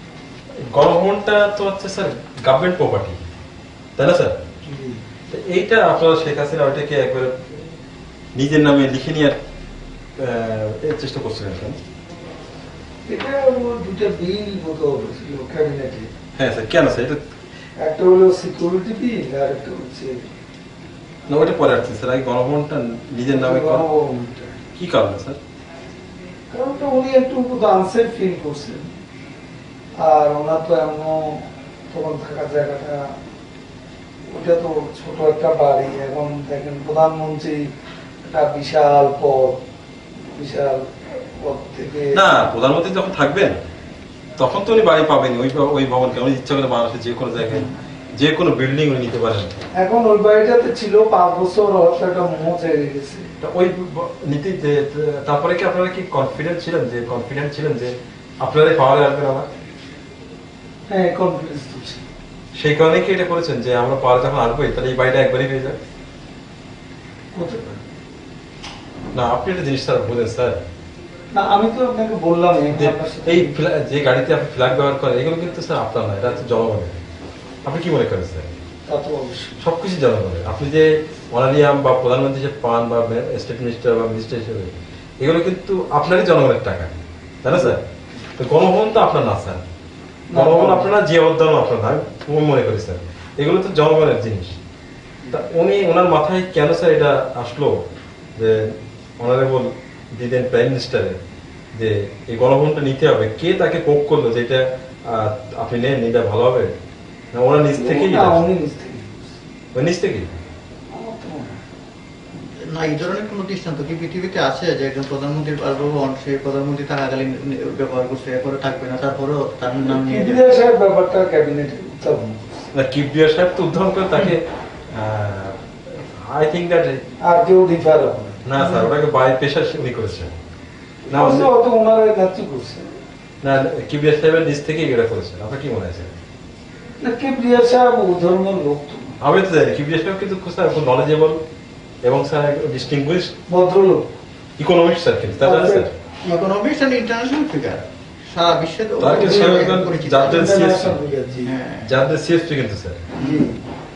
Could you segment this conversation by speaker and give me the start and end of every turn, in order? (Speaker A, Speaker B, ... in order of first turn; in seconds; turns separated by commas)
Speaker A: 0.7-3.2, Speaker A: 4.0-4.4, Speaker B: 4.7-5.0, Speaker A: 5.3-7.7, Speaker A: 8.3-9.4, Speaker A: 10.2-11.8, Speaker B: 13.1-16.1, Speaker A: 16.4-17.2, Speaker B: 17.8-20.3, Speaker A: 21.3-23.9, Speaker B: 23.3-24.6, Speaker A: 24.8-25.4, Speaker B: 26.5-28.9, Speaker B: 30.0-33.0, Speaker B: 34.3-37.6, Speaker B: 38.2-39.6, Speaker B: 40.4-42.4, Speaker A: 42.1-43.6, Speaker A: 44.4-49.5, Speaker B: 49.8-53.3, Speaker A: 53.4-59.5, Speaker B: 60.9-62.0, Speaker A: 62.6-65.8, Speaker B: 67.3-67.8, Speaker A: 69.1-70.6, Speaker B: 71.3-73.5, Speaker A: 72.8-77.0, Speaker A: 77.7-78.5, Speaker B: 78.9-79.6, Speaker A: 79.6-86.9, Speaker A: 87.4-87.8, Speaker A: 88.4-89.6, Speaker B: 90.3-90.9, Speaker A: 90.3-94.6, Speaker A: 95.3-97.8, Speaker A: 98.4-101.2, Speaker A: 101.8-106.7, Speaker A: 107.3-108.4, Speaker B: 107.7-109.3, Speaker A: 109.7-110.3, Speaker B: 110.9-111.6, Speaker C: 112.6-120.5, Speaker B: 119.8-122.7, Speaker A: 122.7-127.0, Speaker B: 127.2-128.9, Speaker A: 128.4-130.3, Speaker B: 131.1-132.9, Speaker A: 131.1-131.5, Speaker A: 133.4-136.1, Speaker B: 137.0-139.2, Speaker A: 139.2-141.4, Speaker A: 142.1-143.3, Speaker B: 143.5-144.1, Speaker A: 144.6-145.9, Speaker B: 145.4-145.9, Speaker C: 146.2-150.8, Speaker A: 149.0-151.0, Speaker B: 149.0-151.5, Speaker C: 151.4-151.9, Speaker A: 151.8-153.0, Speaker C: 153.1-153.5, Speaker B: 153.2-153.6